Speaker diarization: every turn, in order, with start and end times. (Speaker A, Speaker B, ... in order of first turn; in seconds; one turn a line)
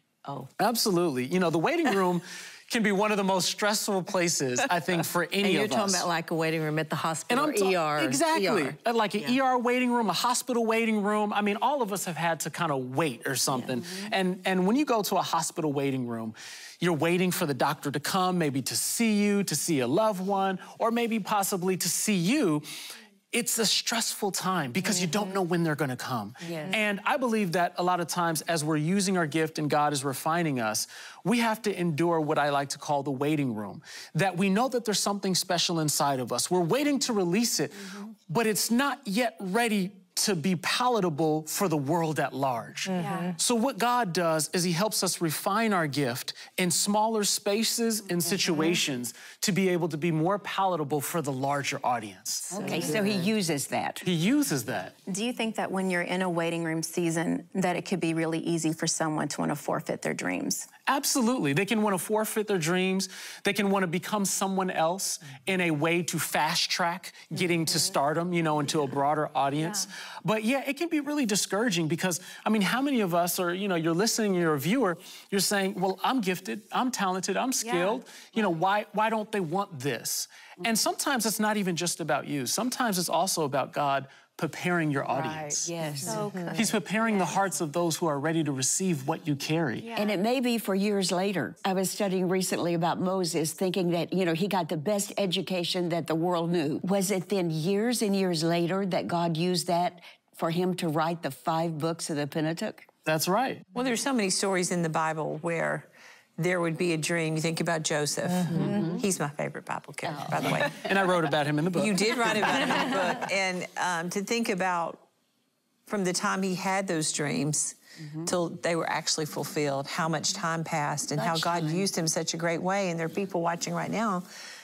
Speaker A: 0.6-6.1
Speaker B: 5.4-8.8
Speaker A: 7.3-53.2
Speaker C: 26.4-26.8
Speaker B: 42.9-43.3
Speaker D: 43.0-43.3
Speaker C: 52.5-54.0
Speaker B: 52.6-53.1
Speaker A: 54.0-55.0
Speaker D: 55.1-60.7
Speaker A: 60.9-85.7
Speaker D: 77.6-78.0
Speaker B: 85.1-86.8
Speaker C: 85.6-86.4
Speaker D: 86.0-87.3
Speaker A: 86.5-89.9
Speaker D: 89.8-90.2
Speaker C: 90.0-102.9
Speaker A: 103.0-103.6
Speaker E: 103.7-110.8
Speaker C: 108.6-109.0
Speaker C: 110.1-110.7
Speaker A: 110.4-112.9
Speaker E: 111.7-115.0
Speaker E: 115.9-124.2
Speaker C: 121.2-121.9